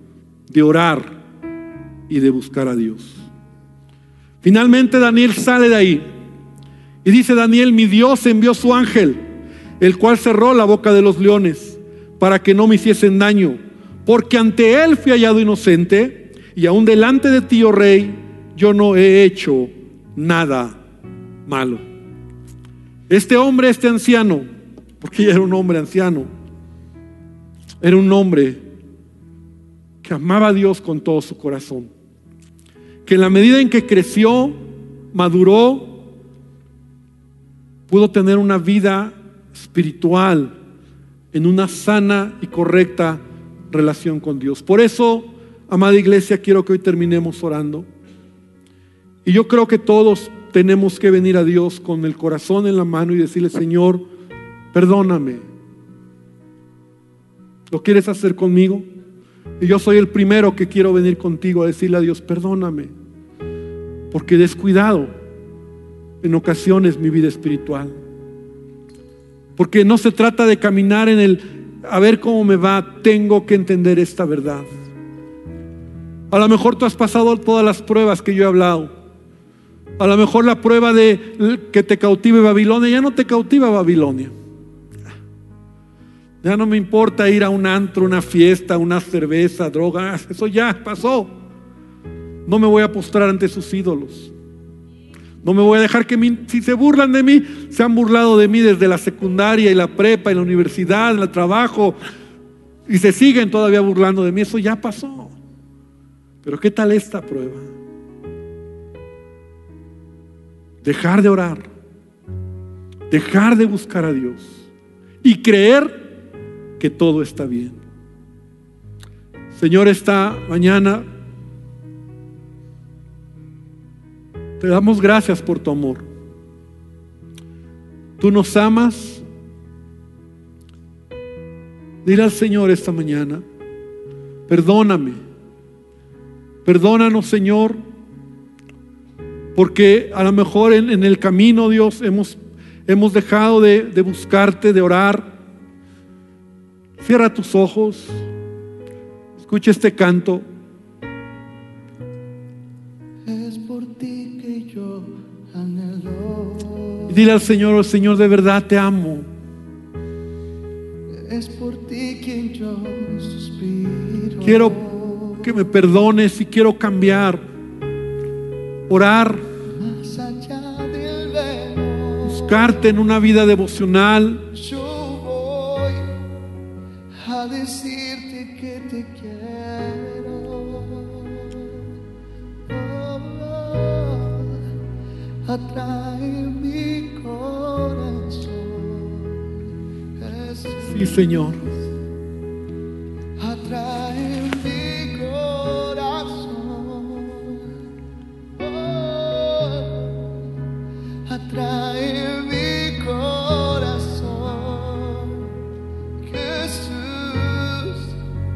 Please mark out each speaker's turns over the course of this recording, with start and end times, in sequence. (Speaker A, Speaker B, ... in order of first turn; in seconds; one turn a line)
Speaker A: 0.5-1.2
Speaker A: 2.1-3.2
Speaker A: 4.4-6.1
Speaker A: 7.0-9.2
Speaker A: 9.8-20.8
Speaker A: 21.5-21.8
Speaker A: 23.1-24.5
Speaker A: 25.0-26.3
Speaker A: 27.8-28.6
Speaker A: 30.0-31.9
Speaker A: 33.1-34.6
Speaker A: 35.1-36.0
Speaker A: 37.9-40.5
Speaker A: 41.3-47.9
Speaker A: 49.2-54.0
Speaker A: 54.7-55.4
Speaker A: 57.7-58.9
Speaker A: 59.6-62.9
Speaker A: 64.1-65.1
Speaker A: 66.2-68.0
Speaker A: 69.6-74.7
Speaker A: 76.3-78.9
Speaker A: 80.0-84.3
Speaker A: 86.4-91.3
Speaker A: 92.5-94.3
Speaker A: 95.4-102.0
Speaker A: 102.9-105.3
Speaker A: 106.4-107.7
Speaker A: 110.8-111.6
Speaker A: 113.1-114.6
Speaker A: 115.2-116.1
Speaker A: 116.8-117.8
Speaker A: 119.5-121.0
Speaker A: 124.6-126.1
Speaker A: 128.2-129.2
Speaker A: 132.0-133.4
Speaker A: 134.5-135.2
Speaker A: 136.6-137.8
Speaker A: 139.6-145.3
Speaker A: 147.0-148.2
Speaker A: 149.4-150.4
Speaker B: 153.3-157.2
Speaker A: 157.1-159.3
Speaker B: 161.1-165.5
Speaker A: 164.4-164.8
Speaker A: 165.4-167.4
Speaker A: 168.9-169.4
Speaker B: 169.8-172.7
Speaker A: 172.2-174.4
Speaker B: 174.5-176.1
Speaker B: 177.2-181.9
Speaker B: 182.7-184.7
Speaker B: 185.4-191.3
Speaker A: 190.9-191.6
Speaker B: 193.4-197.7
Speaker B: 198.6-200.5
Speaker B: 201.3-205.6
Speaker B: 206.2-208.2